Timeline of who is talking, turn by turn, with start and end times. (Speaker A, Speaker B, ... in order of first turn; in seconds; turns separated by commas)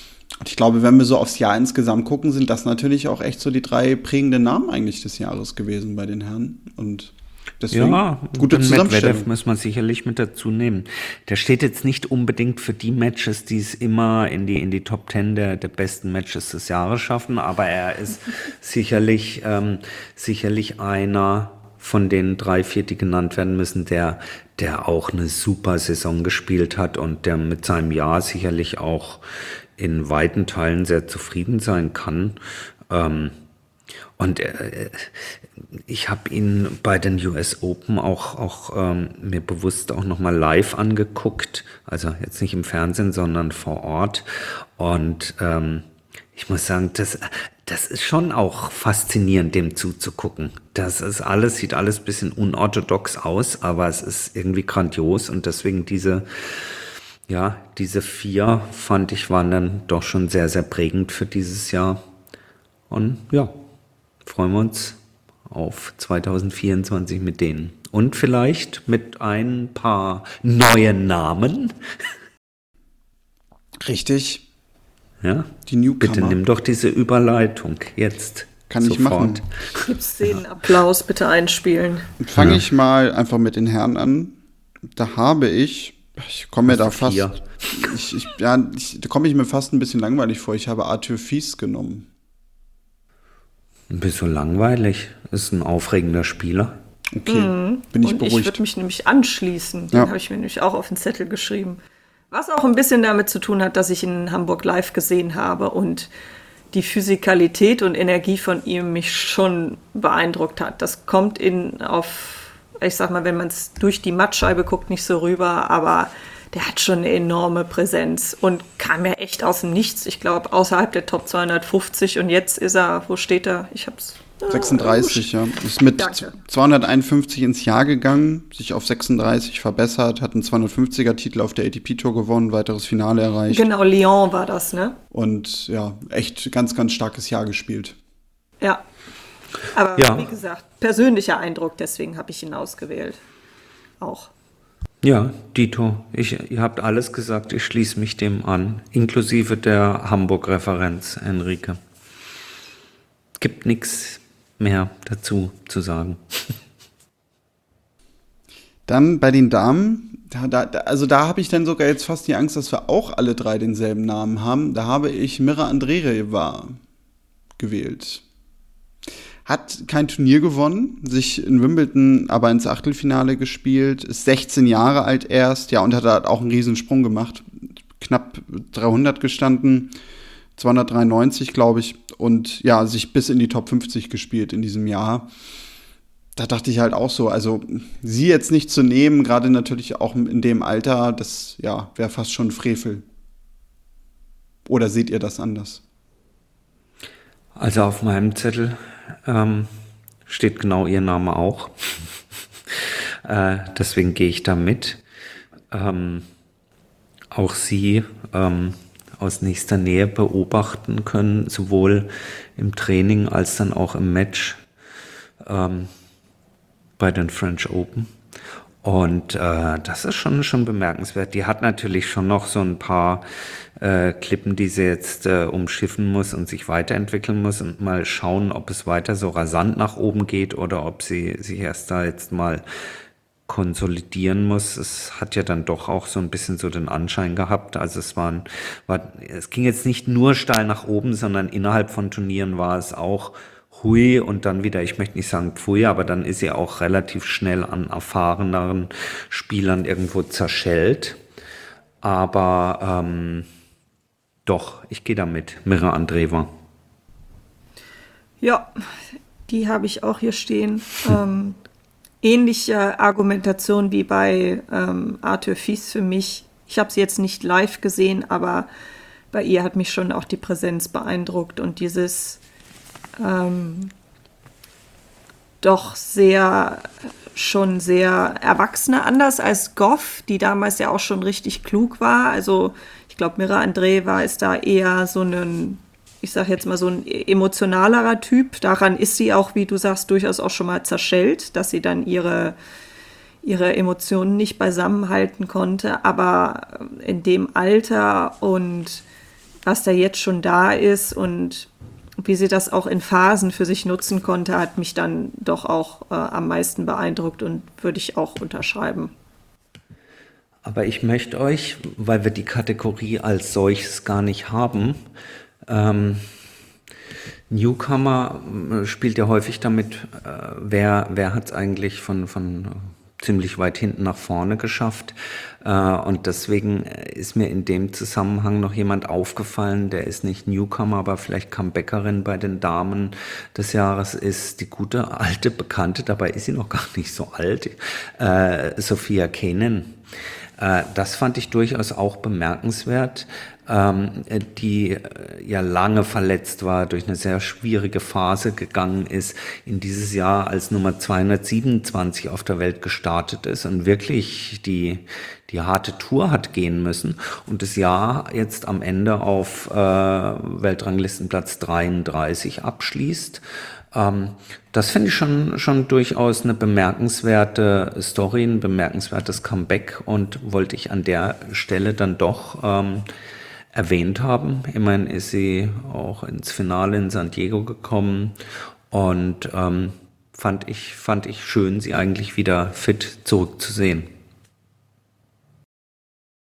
Speaker A: 0.4-9.3, Speaker B: 7.7-29.2, Speaker B: 29.8-32.4, Speaker B: 32.9-33.4, Speaker B: 34.2-35.4, Speaker B: 35.9-56.8, Speaker B: 57.3-62.0, Speaker B: 62.9-63.5, Speaker B: 64.2-71.7, Speaker A: 73.8-74.4, Speaker B: 75.2-79.8, Speaker A: 75.7-76.4, Speaker A: 78.7-79.4, Speaker C: 79.8-82.1, Speaker A: 82.2-84.4, Speaker B: 82.3-82.7, Speaker A: 84.9-92.1, Speaker B: 86.7-87.9, Speaker B: 93.9-96.8, Speaker A: 97.1-98.6, Speaker C: 97.3-101.8, Speaker C: 102.3-106.1, Speaker C: 106.7-125.3, Speaker A: 124.5-133.7, Speaker C: 126.0-126.3, Speaker C: 133.5-135.0, Speaker A: 135.1-138.0, Speaker C: 139.7-143.2, Speaker B: 140.0-140.3, Speaker C: 144.0-144.3, Speaker B: 145.0-151.8, Speaker B: 153.4-156.6, Speaker A: 158.9-166.8, Speaker A: 167.6-168.2, Speaker A: 169.5-179.9, Speaker A: 180.6-185.3, Speaker A: 186.4-193.1, Speaker A: 194.7-195.8, Speaker B: 197.6-199.7, Speaker B: 200.3-202.1, Speaker B: 202.7-205.0, Speaker B: 205.7-206.3, Speaker B: 207.3-214.6, Speaker B: 215.4-215.9, Speaker B: 217.0-218.1, Speaker B: 218.8-223.2, Speaker B: 223.8-232.6, Speaker B: 233.5-251.2, Speaker B: 252.0-253.5, Speaker B: 254.5-256.5, Speaker C: 258.4-258.7, Speaker C: 259.5-261.6, Speaker C: 262.2-268.7, Speaker C: 269.3-272.4, Speaker C: 273.2-273.9, Speaker C: 275.6-292.6, Speaker C: 293.4-299.0, Speaker C: 299.7-301.7, Speaker C: 302.2-309.1, Speaker B: 310.6-315.0, Speaker B: 315.7-316.3, Speaker B: 317.5-340.0, Speaker B: 340.6-373.1, Speaker B: 373.7-378.4, Speaker B: 378.9-384.1